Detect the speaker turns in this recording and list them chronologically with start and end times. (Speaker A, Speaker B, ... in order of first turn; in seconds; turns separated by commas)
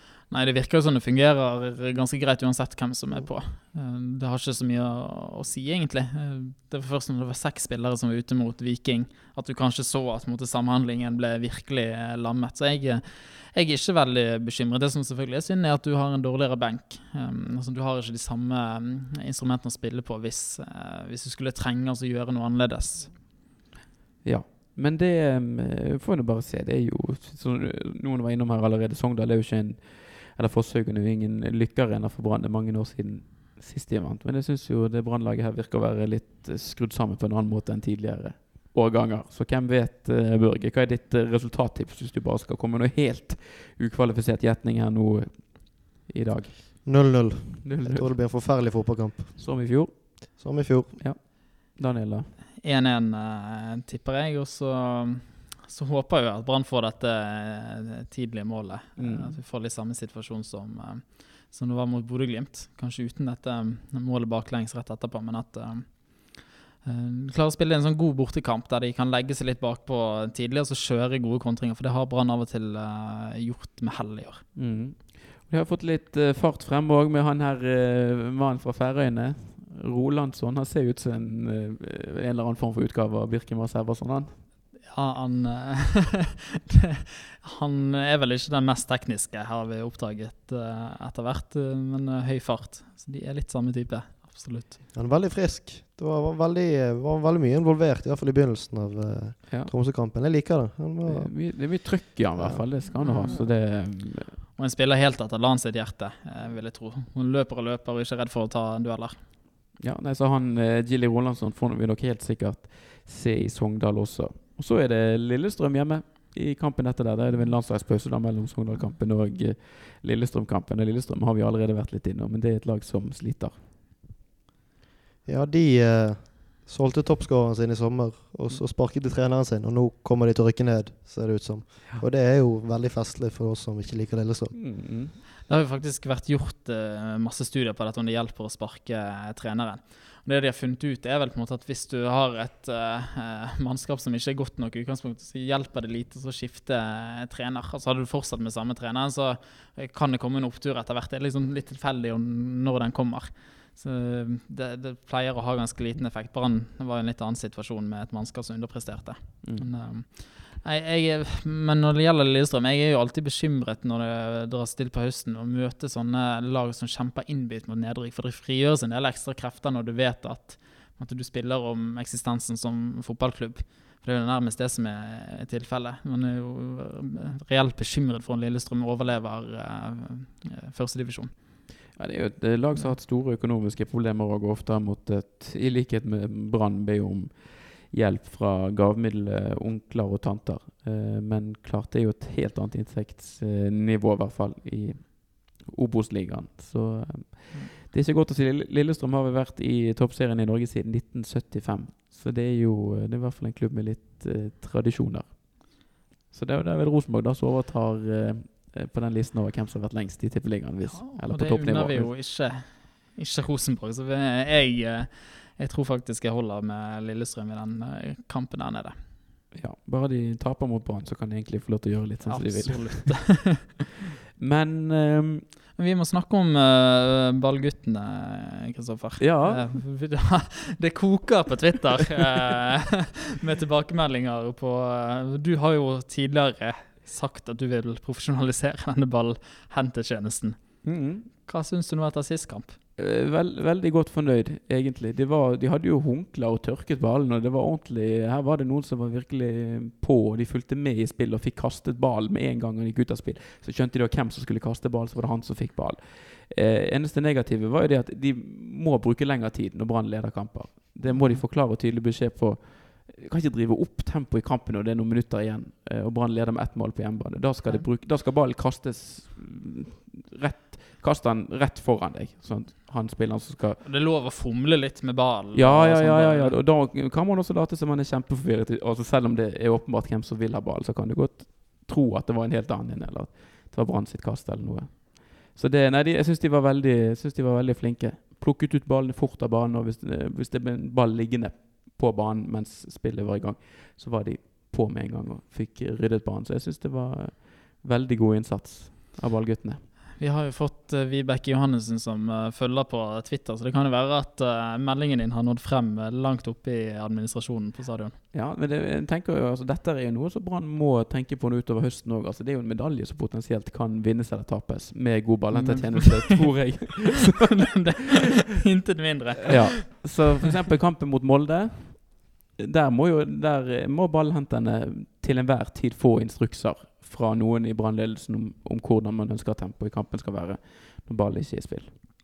Speaker A: 0.3-23.1, Speaker B: 24.2-52.4, Speaker C: 46.8-49.7, Speaker C: 50.3-51.1, Speaker A: 52.6-74.5, Speaker B: 59.0-59.4, Speaker B: 74.5-84.4, Speaker A: 84.8-86.7, Speaker A: 87.4-94.8, Speaker C: 94.9-103.5, Speaker B: 101.0-104.4, Speaker A: 103.0-103.8, Speaker A: 104.5-109.2, Speaker B: 109.8-123.7, Speaker C: 125.3-134.6, Speaker B: 134.5-135.2, Speaker A: 135.4-181.8, Speaker B: 159.4-159.7, Speaker B: 181.9-212.2, Speaker A: 210.9-219.0, Speaker B: 219.5-223.7, Speaker A: 222.2-223.6, Speaker B: 224.4-225.4, Speaker A: 225.8-242.8, Speaker B: 229.2-229.8, Speaker B: 240.8-241.3, Speaker B: 243.0-273.9, Speaker A: 261.1-261.4, Speaker A: 273.8-276.6, Speaker B: 275.5-299.9, Speaker A: 300.2-308.2, Speaker B: 308.3-317.5, Speaker A: 315.5-316.9, Speaker A: 317.6-320.2, Speaker B: 319.5-332.0